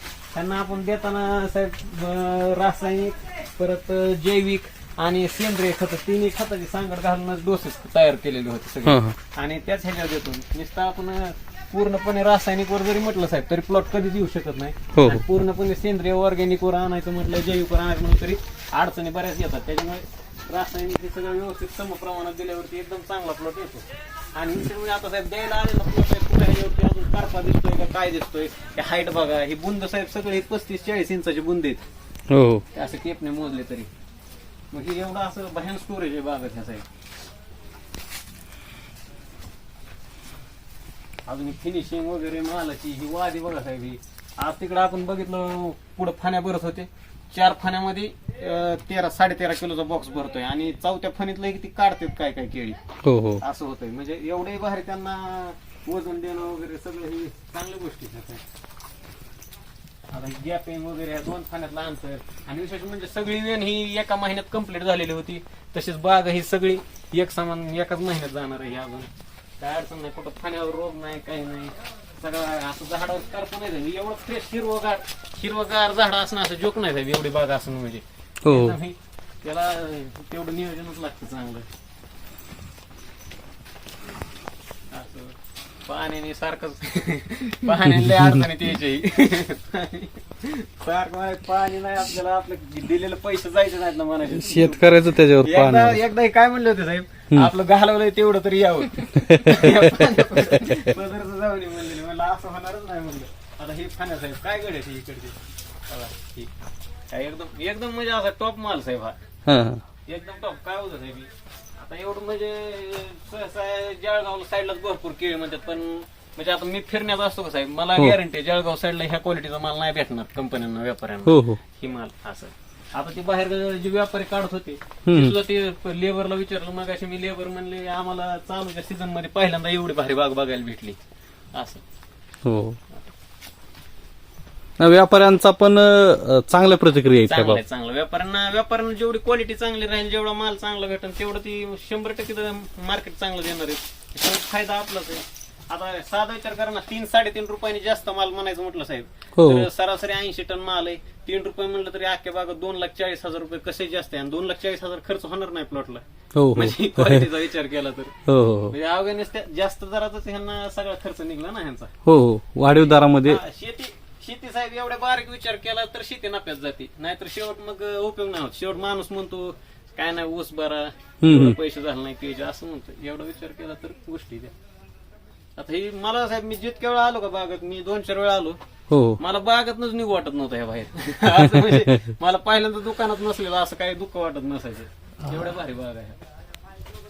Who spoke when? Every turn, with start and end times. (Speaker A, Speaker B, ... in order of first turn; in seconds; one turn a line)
Speaker A: 0.3-31.8
Speaker B: 8.8-9.2
Speaker B: 14.9-15.2
Speaker B: 32.3-32.6
Speaker A: 32.7-33.9
Speaker A: 34.7-36.8
Speaker A: 41.2-52.8
Speaker B: 53.0-53.4
Speaker A: 53.4-58.4
Speaker A: 60.1-81.7
Speaker B: 78.4-78.8
Speaker A: 84.9-85.3
Speaker A: 85.8-105.3
Speaker B: 87.9-88.4
Speaker B: 94.3-96.0
Speaker B: 99.2-100.9
Speaker A: 105.9-106.5
Speaker A: 107.1-109.2
Speaker B: 109.5-109.8
Speaker A: 110.1-131.0
Speaker B: 121.2-121.6
Speaker B: 125.0-125.3
Speaker A: 131.5-131.8
Speaker B: 132.4-132.8
Speaker B: 134.8-137.6
Speaker A: 137.2-156.0
Speaker B: 149.3-149.7
Speaker B: 156.3-157.3
Speaker A: 156.5-158.1
Speaker B: 158.2-158.7
Speaker A: 158.7-161.9
Speaker B: 162.0-163.4
Speaker A: 162.6-174.5
Speaker B: 171.2-171.6
Speaker A: 175.6-178.6
Speaker B: 178.9-179.2
Speaker A: 179.2-186.2
Speaker B: 181.3-182.0
Speaker B: 185.2-185.5